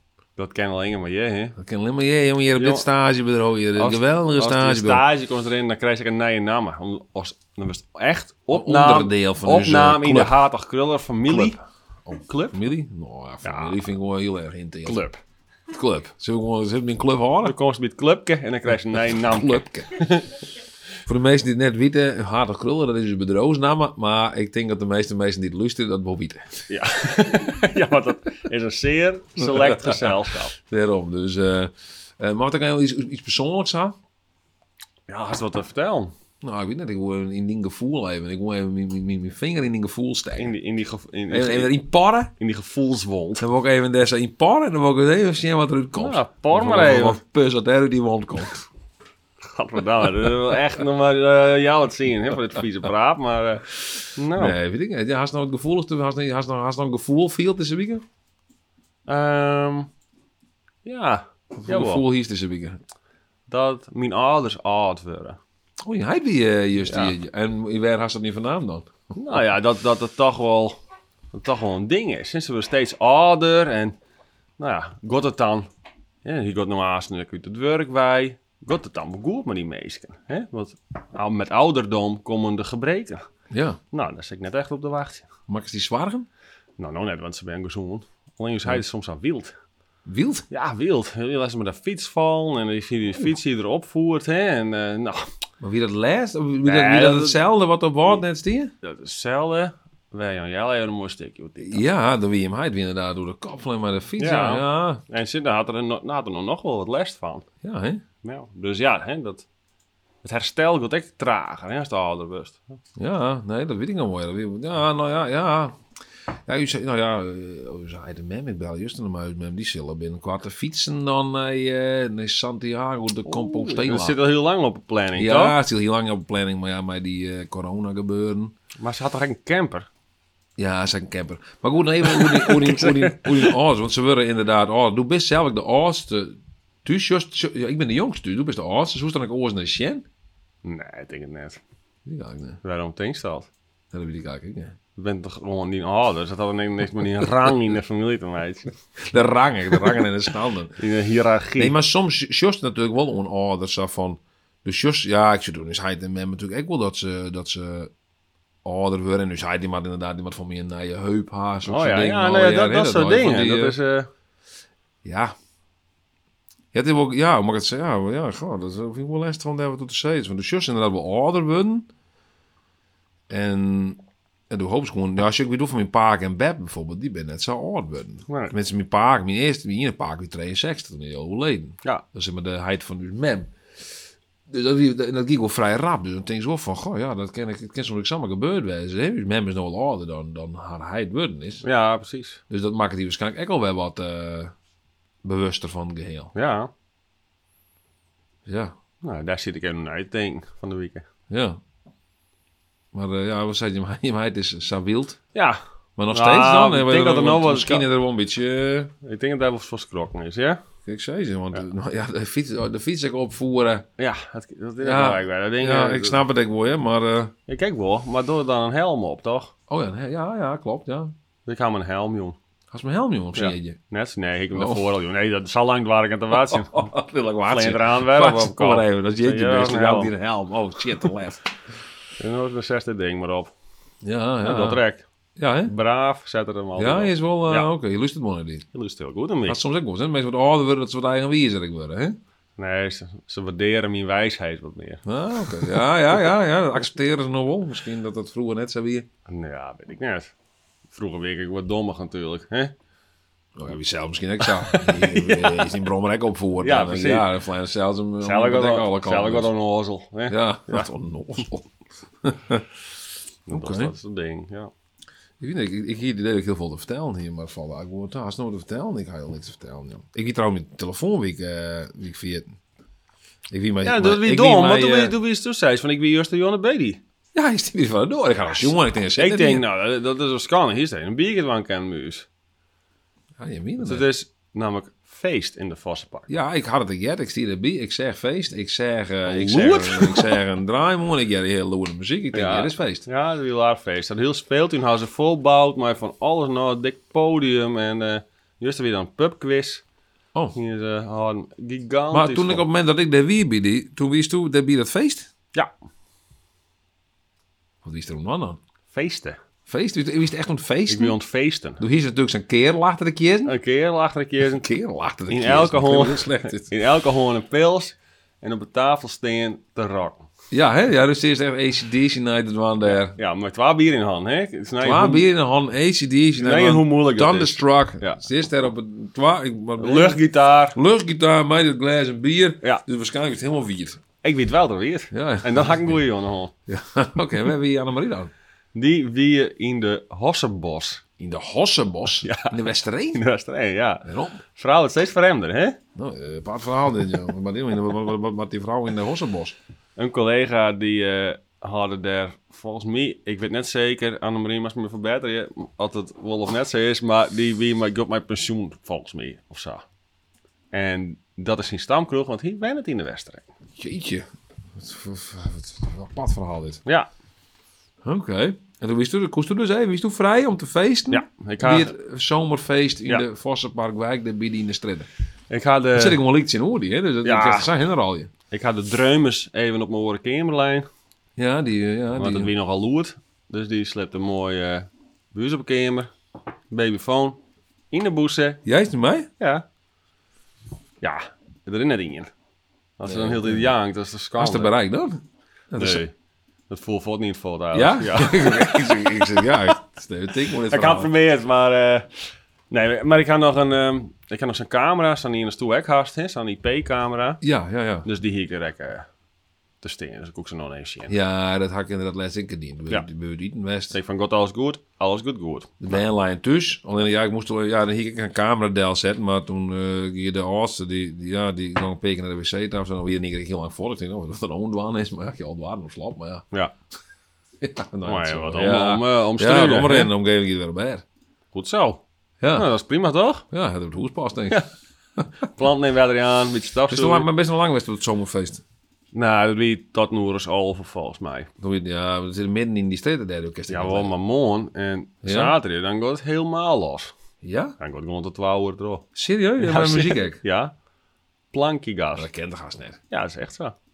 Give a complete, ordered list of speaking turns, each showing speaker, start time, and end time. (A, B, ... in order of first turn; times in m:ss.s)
0:00.4-0:01.6 A
0:01.6-0:05.1 B
0:02.5-0:02.9 A
0:03.8-0:11.6 A
0:08.5-0:10.4 B
0:11.3-0:15.0 B
0:12.1-0:12.6 A
0:13.4-0:13.8 A
0:14.9-0:15.2 A
0:15.7-0:17.6 B
0:17.4-0:20.4 A
0:18.9-0:20.1 B
0:21.1-0:26.7 B
0:26.7-0:30.6 A
0:29.4-0:34.0 B
0:35.1-0:36.1 A
0:36.4-0:40.6 B
0:40.4-0:41.7 A
0:41.3-0:42.3 B
0:42.4-0:43.4 A
0:43.4-0:48.7 B
0:46.0-0:47.2 A
0:49.4-0:54.6 A
0:54.3-0:58.0 B
0:59.1-0:59.9 A
1:00.8-1:02.0 A
1:01.6-1:02.8 B
1:03.5-1:05.4 A
1:05.8-1:09.4 B
1:06.9-1:07.1 A
1:09.2-1:10.8 A
1:11.3-1:14.0 A
1:14.6-1:15.7 A
1:16.2-1:23.2 A
1:23.5-1:23.8 B
1:23.9-1:25.3 A
1:25.5-1:26.3 B
1:26.8-1:29.5 A
1:30.1-1:30.4 B
1:30.5-1:35.3 A
1:35.6-1:38.7 B
1:36.6-1:37.4 A
1:38.8-1:41.8 A
1:41.6-1:45.0 B
1:44.2-1:47.5 A
1:47.6-1:48.0 B
1:48.2-1:49.5 A
1:50.2-1:52.6 A
1:53.0-1:55.8 B
1:56.5-2:04.2 B
2:03.3-2:05.6 A
2:05.2-2:08.5 B
2:08.8-2:09.9 A
2:10.6-2:20.0 B
2:12.1-2:13.5 A
2:20.6-2:21.6 A
2:22.1-2:22.6 B
2:22.6-2:23.5 A
2:23.9-2:24.8 B
2:25.0-2:28.7 A
2:29.0-2:30.8 B
2:30.8-2:31.7 A
2:31.6-2:37.9 B
2:38.6-2:43.8 B
2:41.7-2:44.1 A
2:45.0-2:45.3 B
2:46.7-2:51.9 B
2:53.3-3:03.5 B
2:58.3-2:58.5 A
3:04.5-3:11.6 B
3:11.6-3:12.4 A
3:12.5-3:14.5 B
3:15.2-3:16.3 B
3:16.3-3:16.7 A
3:18.5-3:18.7 B
3:19.0-3:21.1 A
3:21.3-3:21.6 B
3:22.9-3:25.2 B
3:25.3-3:25.6 A
3:26.0-3:28.9 B
3:26.1-3:27.9 A
3:29.0-3:30.6 A
3:30.9-3:33.9 B
3:34.0-3:36.2 A
3:34.8-3:37.3 B
3:37.5-3:39.5 A
3:39.7-3:41.1 B
3:41.5-3:42.4 A
3:42.7-3:43.8 B
3:43.4-3:46.9 A
3:44.5-3:44.8 B
3:46.3-3:51.5 B
3:47.5-3:50.1 A
3:52.2-3:53.5 A
3:54.0-3:54.8 B
3:54.4-3:55.1 A
3:55.4-3:55.7 B
3:55.7-3:57.7 A
3:56.8-3:58.6 B
3:58.7-3:59.6 A
3:59.5-4:02.2 B
4:02.6-4:05.8 A
4:05.0-4:09.1 B
4:09.3-4:10.3 A
4:10.9-4:12.7 A
4:13.6-4:19.5 B
4:14.5-4:15.6 A
4:16.6-4:17.3 A
4:18.2-4:20.9 A
4:20.3-4:22.7 B
4:23.5-4:24.7 A
4:23.5-4:23.9 B
4:25.4-4:32.6 B
4:33.5-4:35.1 B
4:33.8-4:37.0 A
4:37.3-4:39.6 B
4:39.2-4:42.3 A
4:43.4-4:44.1 B
4:43.8-4:46.3 A
4:46.3-4:53.1 B
4:49.3-4:50.4 A
4:52.3-4:59.8 A
5:00.5-5:02.7 A
5:02.1-5:05.3 B
5:07.8-5:08.6 B
5:08.9-5:09.4 A
5:09.7-5:11.2 B
5:10.9-5:11.8 A
5:11.8-5:13.6 B
5:13.5-5:14.7 A
5:14.5-5:16.7 B
5:15.3-5:20.3 A
5:20.5-5:23.2 B
5:22.9-5:25.3 A
5:24.8-5:30.2 B
5:26.4-5:28.2 A
5:29.8-5:30.8 A
5:30.7-5:34.0 B
5:34.2-5:36.5 A
5:35.1-5:36.0 B
5:36.7-5:38.3 B
5:38.8-5:41.0 A
5:41.2-5:43.2 B
5:42.2-5:42.6 A
5:43.1-5:45.8 A
5:44.0-5:44.4 B
5:46.0-5:49.6 B
5:50.0-5:59.8 A
6:00.7-6:03.5 A
6:03.8-6:06.8 B
6:08.0-6:15.1 B
6:11.1-6:11.9 A
6:15.5-6:16.2 A
6:16.0-6:18.3 B
6:17.2-6:17.7 A
6:18.5-6:20.9 A
6:21.4-6:22.5 B
6:22.2-6:26.1 A
6:26.7-6:27.4 A
6:27.9-6:28.6 A
6:28.6-6:29.3 B
6:29.4-6:29.6 A
6:31.0-6:32.3 A
6:33.0-6:34.7 A
6:33.0-6:33.7 B
6:34.4-6:36.0 B
6:35.8-6:36.1 A
6:36.7-6:39.0 A
6:37.7-6:41.1 B
6:40.7-6:42.1 A
6:42.7-6:47.4 A
6:47.4-6:48.1 B
6:48.0-6:49.1 A
6:49.8-6:51.2 A
6:51.1-6:54.0 B
6:53.9-6:55.8 A
6:55.8-7:06.4 B
7:07.6-7:11.0 B
7:08.0-7:10.1 A
7:11.5-7:12.0 A
7:12.4-7:12.7 B
7:12.6-7:13.4 A
7:13.5-7:14.6 B
7:15.5-7:17.3 A
7:16.9-7:18.6 B
7:19.1-7:21.5 A
7:21.6-7:24.2 B
7:23.7-7:27.1 A
7:25.2-7:25.6 B
7:27.4-7:27.8 B
7:27.8-7:29.1 A
7:29.2-7:30.4 B
7:29.6-7:30.7 A
7:31.5-7:32.3 A
7:32.2-7:33.0 B
7:33.1-7:33.8 A